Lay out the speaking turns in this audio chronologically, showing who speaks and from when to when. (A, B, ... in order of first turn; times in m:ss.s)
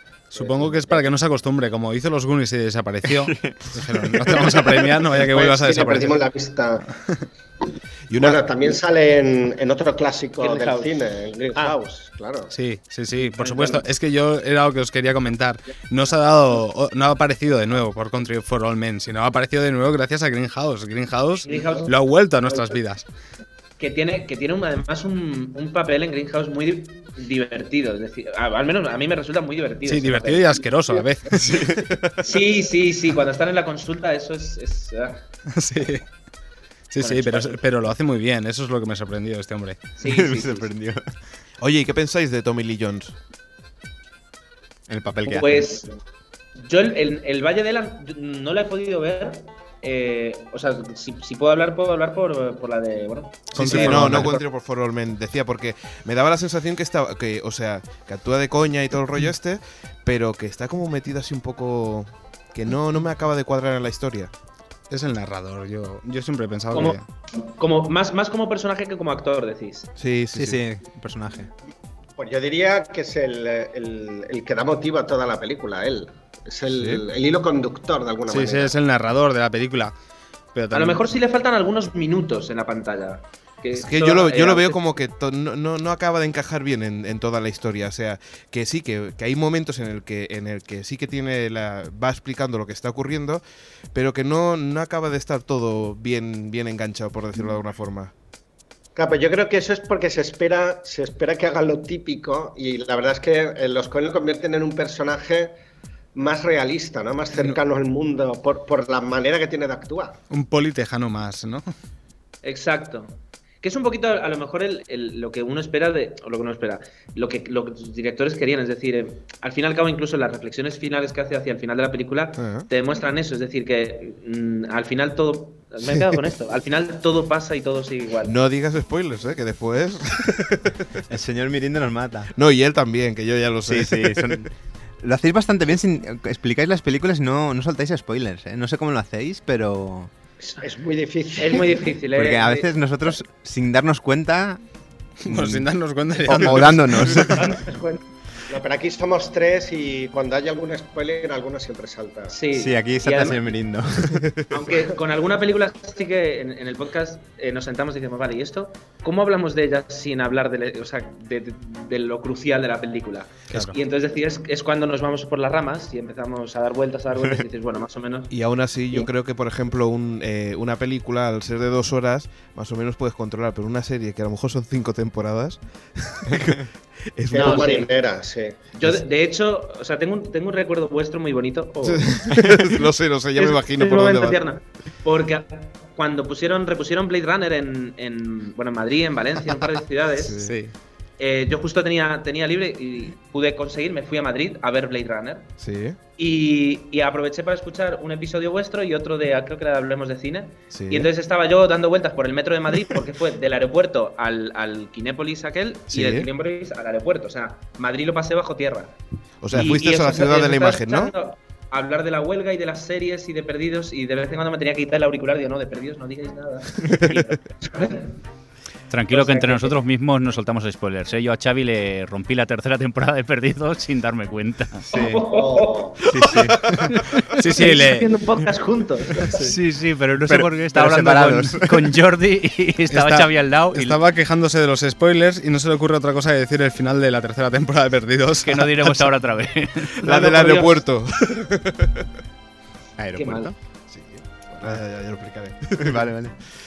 0:00.3-0:06.2 A
0:00.4-0:01.0 B
0:03.2-0:04.7 C
0:05.1-0:06.9 B
0:08.1-0:08.4 D
0:08.2-0:12.5 B
0:10.4-0:11.0 E
0:12.5-0:23.0 A
0:13.4-0:13.8 E
0:21.4-0:21.9 E
0:23.8-0:30.5 E
0:29.8-0:31.7 A
0:31.5-0:31.8 C
0:31.7-0:32.1 D
0:32.2-0:35.2 E
0:35.5-0:36.0 A
0:36.9-0:39.8 A
0:37.0-0:37.6 E
0:40.0-0:40.7 E
0:40.0-0:41.1 C
0:41.6-0:43.1 D
0:44.9-0:45.8 C
0:45.2-0:45.9 E
0:46.6-0:53.7 E
0:53.6-0:54.4 A
0:53.6-1:04.3 D
0:53.6-0:54.2 C
1:04.9-1:07.0 A
1:06.7-1:09.9 E
1:10.0-1:10.6 D
1:10.3-1:11.5 C
1:12.2-1:18.7 B
1:16.7-1:17.0 D
1:18.3-1:19.9 A
1:20.5-1:21.1 A
1:20.7-1:24.8 E
1:23.7-1:33.4 D
1:33.9-1:38.1 D
1:39.0-1:45.5 B
1:46.1-1:50.2 B
1:50.3-1:51.7 A
1:52.4-2:08.3 E
2:02.4-2:02.7 D
2:08.2-2:11.0 D
2:11.1-2:12.3 C
2:12.4-2:14.5 D
2:13.7-2:20.1 C
2:20.4-2:21.8 B
2:21.4-2:22.7 E
2:22.1-2:24.6 C
2:25.2-2:27.4 A
2:25.2-2:25.7 C
2:26.2-2:27.6 C
2:27.3-2:28.0 E
2:28.5-2:32.4 B
2:32.3-2:33.4 E
2:32.5-2:34.4 C
2:34.2-2:34.4 D
2:34.5-2:48.3 E
2:43.5-2:43.7 A
2:48.3-2:57.8 D
2:57.3-2:58.6 B
2:57.3-2:57.9 E
2:58.7-3:02.4 E
3:01.8-3:04.4 D
3:03.4-3:10.4 E
3:10.3-3:10.7 A
3:11.2-3:15.5 E
3:15.6-3:16.0 D
3:16.2-3:28.9 E
3:20.7-3:21.1 D
3:25.9-3:26.3 D
3:29.4-3:31.1 D
3:29.5-3:38.1 E
3:38.9-3:44.9 F
3:39.1-3:39.8 E
3:44.9-3:45.3 C
3:44.9-3:45.9 E
3:45.2-3:46.0 B
3:46.0-3:46.9 C
3:47.3-3:48.1 A
3:47.4-3:49.4 E
3:49.4-3:54.0 F
3:50.2-3:51.9 C
3:52.9-3:59.1 A
3:58.4-4:00.1 F
4:00.0-4:02.1 D
4:00.0-4:00.8 E
4:03.0-4:03.5 C
4:03.1-4:03.5 E
4:03.9-4:06.1 D
4:05.8-4:06.3 C